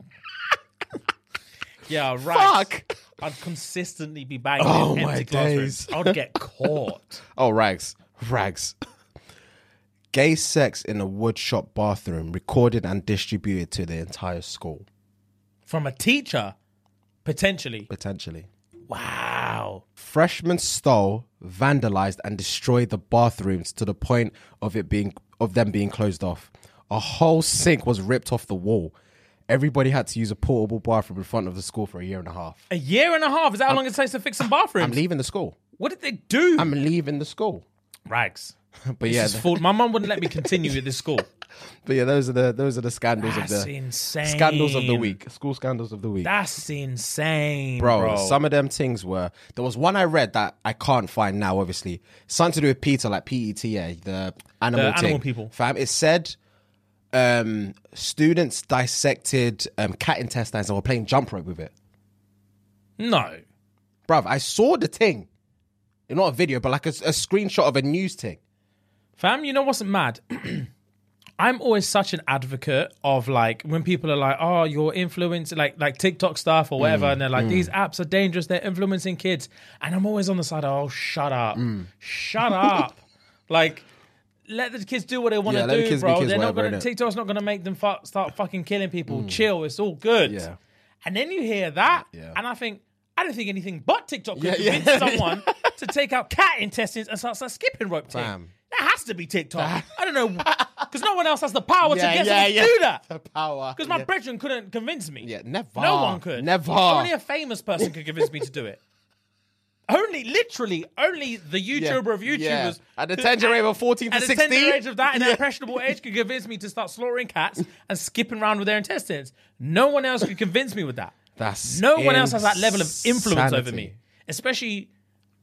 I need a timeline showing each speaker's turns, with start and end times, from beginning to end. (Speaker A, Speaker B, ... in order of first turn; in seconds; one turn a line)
Speaker A: 1.9-7.2
Speaker B: 2.2-2.9
Speaker B: 4.6-8.7
Speaker B: 10.1-14.9
Speaker A: 15.7-16.6
Speaker A: 17.2-17.9
Speaker B: 17.9-18.5
Speaker A: 18.9-19.8
Speaker B: 20.0-28.9
Speaker B: 29.5-32.6
Speaker A: 32.7-35.0
Speaker B: 34.7-35.6
Speaker A: 35.8-36.7
Speaker B: 36.6-37.6
Speaker A: 38.1-38.5
Speaker B: 38.9-40.8
Speaker A: 39.1-41.2
Speaker B: 41.8-46.3
Speaker A: 43.2-45.2
Speaker A: 46.2-48.4
Speaker B: 47.8-56.4
Speaker A: 54.7-55.5
Speaker B: 57.1-61.7
Speaker A: 63.0-63.4
Speaker B: 64.1-65.3
Speaker B: 66.1-68.4
Speaker A: 69.2-70.7
Speaker A: 71.4-83.8
Speaker B: 76.8-77.7
Speaker B: 81.5-81.9
Speaker B: 82.4-82.9
Speaker A: 84.5-90.5
Speaker B: 85.4-86.9
Speaker B: 89.1-89.5
Speaker B: 90.2-90.5
Speaker A: 91.0-103.0
Speaker B: 91.9-92.4
Speaker B: 94.3-95.8
Speaker B: 98.1-98.5
Speaker B: 99.5-100.8
Speaker B: 101.8-104.1
Speaker A: 103.7-108.8
Speaker B: 105.2-107.1
Speaker A: 109.9-121.1
Speaker B: 111.7-115.4
Speaker B: 121.4-124.0
Speaker A: 121.6-124.9